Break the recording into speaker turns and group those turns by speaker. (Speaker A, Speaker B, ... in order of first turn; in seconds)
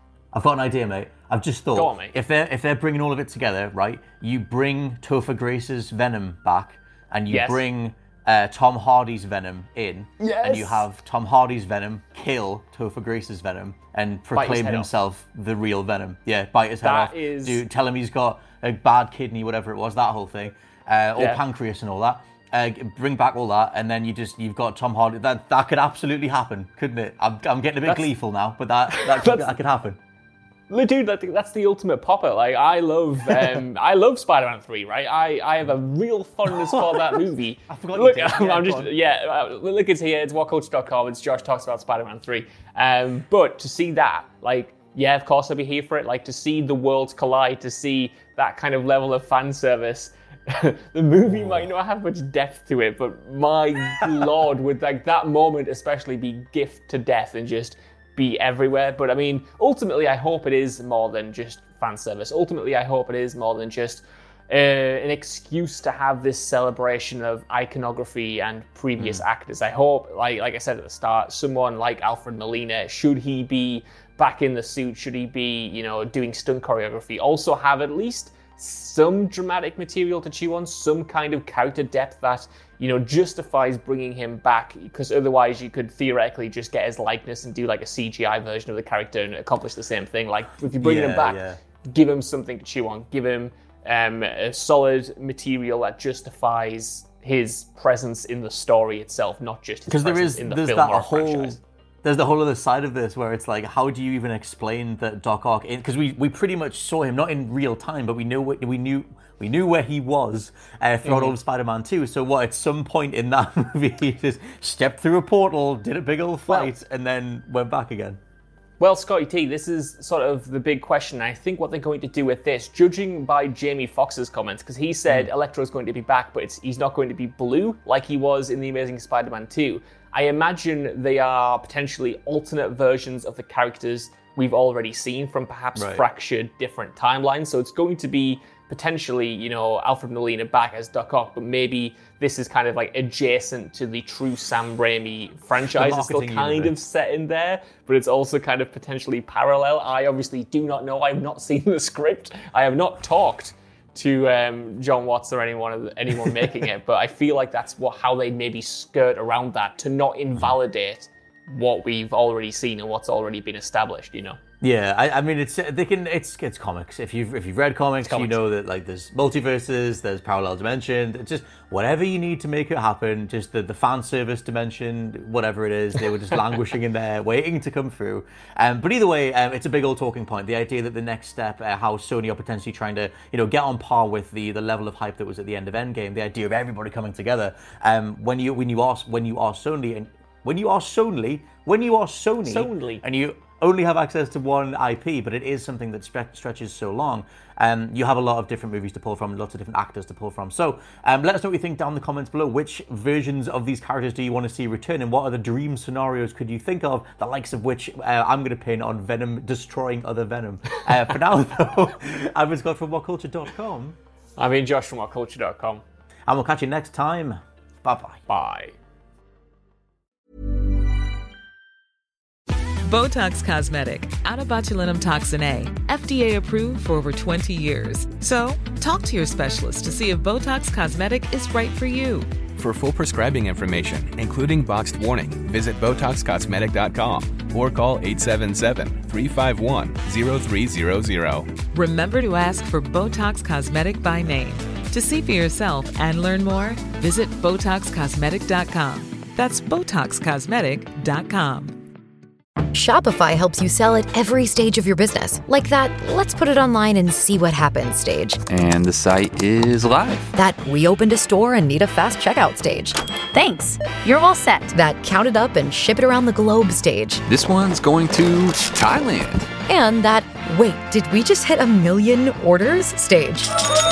Speaker A: 0.3-30.0, 36.5-38.9, 90.8-91.6, 99.9-118.2, 135.8-136.0, 145.7-146.8, 164.6-214.0, 216.3-218.2
Speaker B: 1.7-2.1, 7.3-7.6, 10.2-10.8, 14.3-14.9, 16.8-17.6, 21.2-21.4, 27.9-28.1, 28.9-29.6, 30.7-101.6, 111.0-111.4, 116.5-116.8, 118.8-164.4, 168.0-168.4, 192.4-193.0, 214.4-215.8, 218.3-218.8
Speaker C: 222.9-232.3, 241.7-251.7
Speaker D: 232.6-241.5
Speaker E: 252.7-258.4, 260.3-267.2, 269.7-273.5
Speaker F: 258.5-260.1, 267.3-269.4